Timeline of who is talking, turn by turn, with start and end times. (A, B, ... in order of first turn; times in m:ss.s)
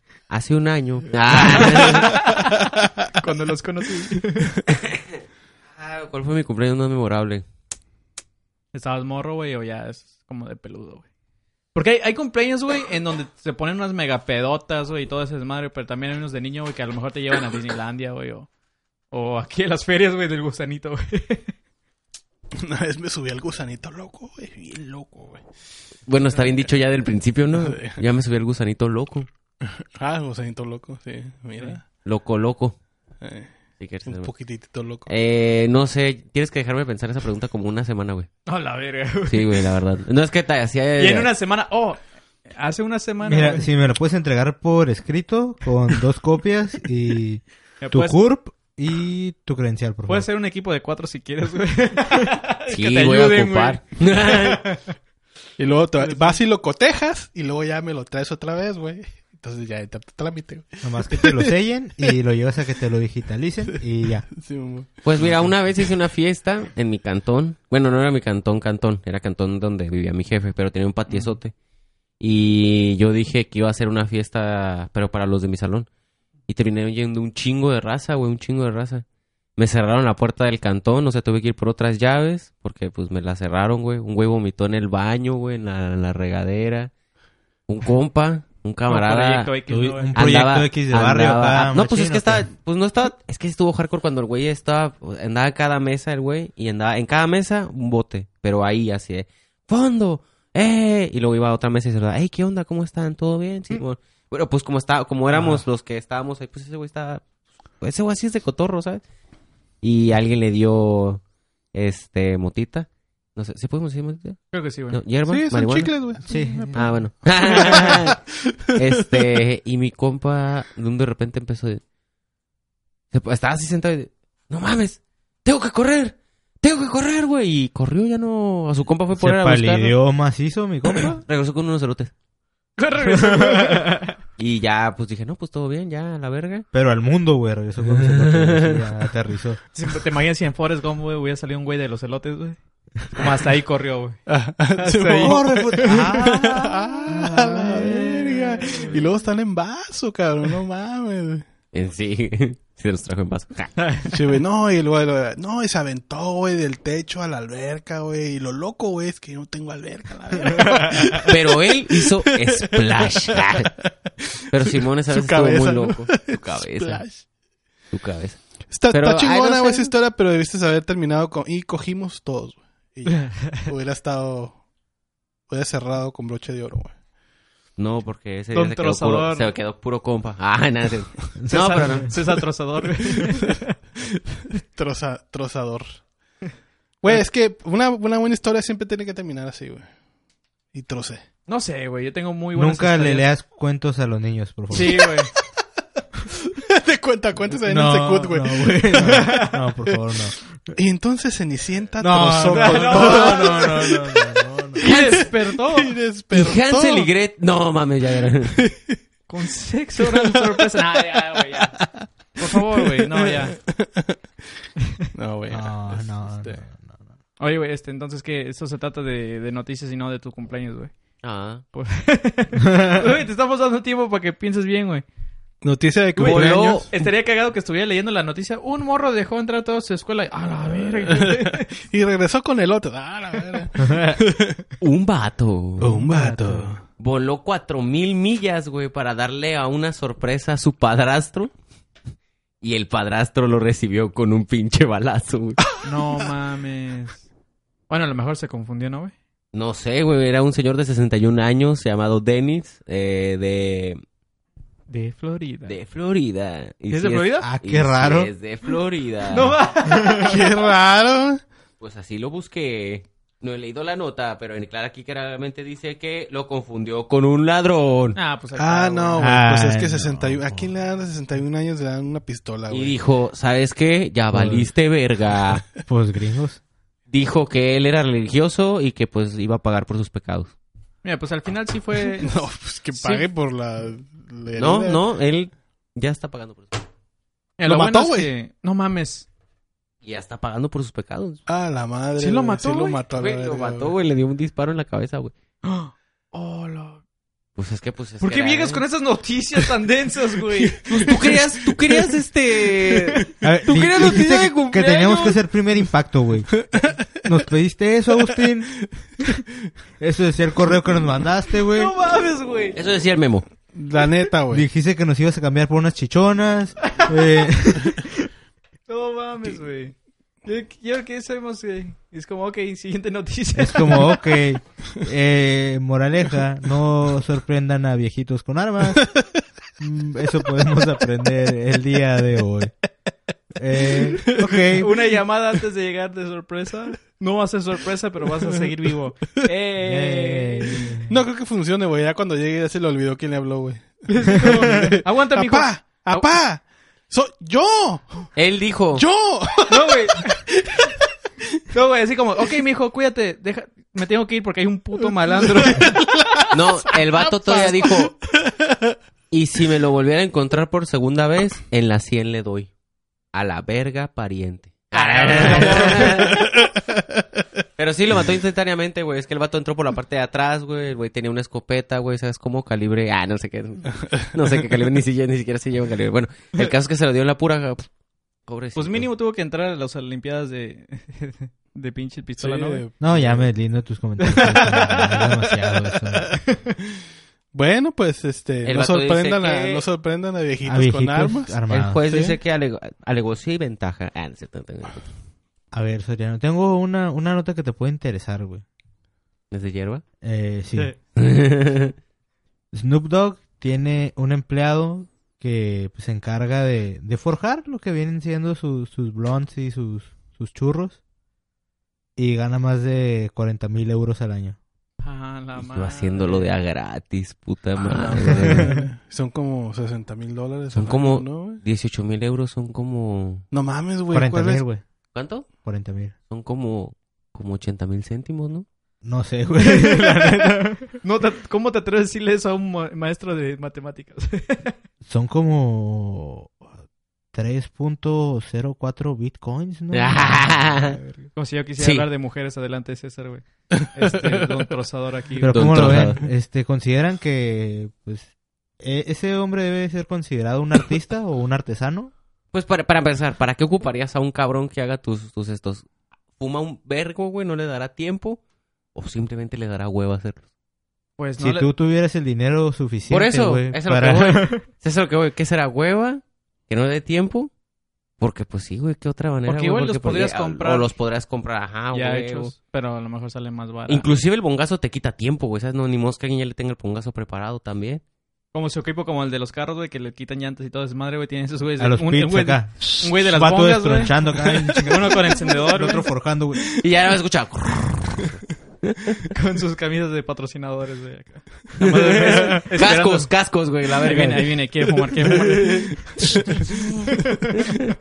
0:00.3-0:02.2 A
0:01.4-0:04.5 B
0:02.5-0:02.9 C
0:04.7-0:05.0 A
0:05.8-0:07.4 A
0:08.7-0:11.0 B
0:11.7-0:18.5 B
0:19.1-0:21.5 B
0:22.6-0:25.4 C
0:26.1-0:29.3 A
0:27.5-0:28.0 C
0:29.6-0:31.8 C
0:32.0-0:32.8 A
0:33.2-0:33.5 C
0:33.8-0:34.3 A
0:34.0-0:35.1 C
0:35.1-0:38.3 A
0:38.5-0:39.7 B
0:39.3-0:41.3 A
0:41.0-0:43.7 B
0:43.2-0:50.3 D
0:47.8-0:48.2 B
0:50.1-0:54.8 B
0:52.7-0:54.6 A
0:55.6-1:01.5 C
0:56.0-0:56.4 B
1:00.8-1:04.3 D
1:04.4-1:05.3 C
1:05.0-1:11.6 A
1:11.1-1:11.4 B
1:12.2-1:15.9 A
1:16.5-1:19.0 A
1:19.6-1:26.9 A
1:27.7-1:29.6 A
1:28.9-1:30.2 B
1:29.7-1:32.5 D
1:30.1-1:47.2 A
1:45.3-1:45.6 B
1:47.8-1:49.0 A
1:49.8-1:51.2 A
1:51.7-1:56.0 A
1:54.5-1:55.0 B
1:55.3-1:56.9 C
1:56.2-1:56.9 D
1:56.7-1:58.2 A
1:57.4-1:58.2 C
1:58.8-2:01.8 A
2:03.1-2:10.0 A
2:09.2-2:11.2 D
2:10.9-2:12.1 A
2:12.8-2:14.1 B
2:14.4-2:16.7 A
2:16.7-2:19.6 D
2:17.9-2:18.8 A
2:19.7-2:22.6 B
2:23.1-2:24.2 B
2:24.3-2:31.5 C
2:24.8-2:26.4 B
2:25.2-2:28.3 D
2:27.2-2:28.9 B
2:31.7-2:33.8 A
2:33.8-2:34.1 B
2:34.1-2:47.2 C
2:40.6-2:41.0 B
2:41.2-2:43.7 A
2:44.5-2:47.2 A
2:47.9-2:49.9 A
2:48.7-2:54.6 C
2:55.5-2:57.0 C
2:57.8-3:02.2 A
2:58.5-2:59.5 B
3:01.4-3:02.1 D
3:01.5-3:03.7 B
3:04.6-3:06.0 C
3:07.0-3:09.9 C
3:10.7-3:11.2 C
3:11.5-3:13.3 B
3:12.6-3:15.1 D
3:14.7-3:15.3 B
3:16.5-3:19.3 C
3:17.7-3:20.5 D
3:19.0-3:19.6 B
3:20.8-3:27.1 C
3:22.0-3:24.8 D
3:22.5-3:23.7 B
3:24.8-3:26.0 B
3:26.3-3:28.6 A
3:28.6-3:29.0 C
3:29.3-3:31.8 B
3:30.0-3:30.6 C
3:31.8-3:34.2 C
3:32.4-3:33.6 B
3:35.1-3:36.6 C
3:35.5-3:37.0 D
3:37.4-3:40.9 B
3:41.2-3:41.6 A
3:41.7-3:45.0 B
3:45.6-3:46.9 C
3:46.2-3:51.7 B
3:46.2-3:46.9 A
3:51.1-3:54.6 C
3:54.8-3:56.0 A
3:55.8-3:56.8 C
3:56.0-3:56.7 B
3:57.0-4:01.5 A
4:02.6-4:05.6 A
4:05.8-4:07.2 B
4:07.9-4:09.1 B
4:09.5-4:14.0 A
4:14.9-4:15.8 B
4:15.7-4:19.6 A
4:16.9-4:17.5 B
4:17.4-4:18.3 D
4:19.3-4:20.5 B
4:20.1-4:21.4 C
4:21.8-4:28.2 A
4:28.2-4:29.3 B
4:28.6-4:33.0 C
4:29.2-4:30.7 D
4:32.7-4:35.7 A
4:34.3-4:34.7 D
4:35.9-4:36.6 D
4:37.1-4:40.5 A
4:41.0-4:43.2 B
4:42.2-4:45.0 C
4:44.6-4:46.8 A
4:47.6-4:49.3 B
4:47.7-4:48.3 C
4:50.0-4:51.4 A
4:51.5-4:53.9 C
4:52.2-4:53.0 B
4:53.1-4:55.3 A
4:55.6-4:57.0 B
4:57.6-4:58.8 A
4:58.2-5:01.1 B
5:00.7-5:01.4 C
5:00.9-5:05.4 A
5:03.4-5:08.8 D
5:04.8-5:05.3 B
5:10.0-5:11.9 D
5:11.7-5:12.8 B
5:12.8-5:13.4 A
5:13.7-5:14.7 C
5:14.5-5:18.0 D
5:18.9-5:19.9 B
5:20.4-5:24.2 B
5:23.6-5:29.2 D
5:29.8-5:32.8 D
5:33.6-5:34.9 D
5:34.4-5:34.8 C
5:34.8-5:40.8 B
5:39.8-5:41.2 D
5:41.1-5:48.3 C
5:44.1-5:46.3 B
5:44.4-5:45.0 D
5:48.4-5:49.0 A
5:48.9-5:49.9 C
5:49.7-5:50.4 B
5:51.7-5:56.5 B
5:55.3-5:56.1 C
5:56.5-5:58.1 A
5:57.2-5:57.8 B
5:59.3-6:02.7 A
6:03.3-6:06.5 A
6:05.0-6:06.1 B
6:05.5-6:06.8 C
6:07.8-6:17.9 A
6:18.5-6:19.1 A
6:18.8-6:22.8 B
6:22.4-6:23.5 C
6:23.0-6:26.4 D
6:24.2-6:24.9 B
6:24.5-6:25.2 C
6:26.4-6:26.8 B
6:27.5-6:32.3 C
6:28.6-6:29.8 A
6:30.6-6:32.2 D
6:31.7-6:35.1 A
6:35.7-6:38.6 D
6:39.5-6:40.0 A
6:40.2-6:40.9 D
6:41.2-6:41.9 A
6:42.7-6:51.0 D
6:52.2-6:54.6 D
6:55.0-6:56.5 B
6:55.6-6:58.7 A
6:57.8-7:01.6 C
6:58.5-6:58.8 B
7:00.7-7:03.5 A
7:03.5-7:04.6 C
7:04.1-7:04.8 D
7:05.1-7:05.5 A
7:05.6-7:06.1 D
7:06.3-7:08.7 A
7:09.0-7:10.8 D
7:09.6-7:14.8 B
7:15.0-7:16.6 D
7:17.3-7:21.3 D
7:19.9-7:21.0 A
7:21.3-7:26.0 B
7:21.8-7:22.0 A
7:25.4-7:32.1 D
7:25.5-7:26.2 A
7:32.5-7:38.4 A
7:39.0-7:40.4 A
7:41.2-7:41.7 B
7:41.4-7:44.5 D
7:43.1-7:47.5 A
7:48.2-7:52.5 A
7:49.5-7:50.9 B
7:51.9-7:54.1 B
7:53.9-7:58.0 A
7:58.5-8:06.1 B
8:01.8-8:06.8 D
8:06.8-8:09.2 A
8:09.3-8:13.3 B
8:11.8-8:15.9 A
8:14.0-8:16.6 B
8:16.6-8:17.0 A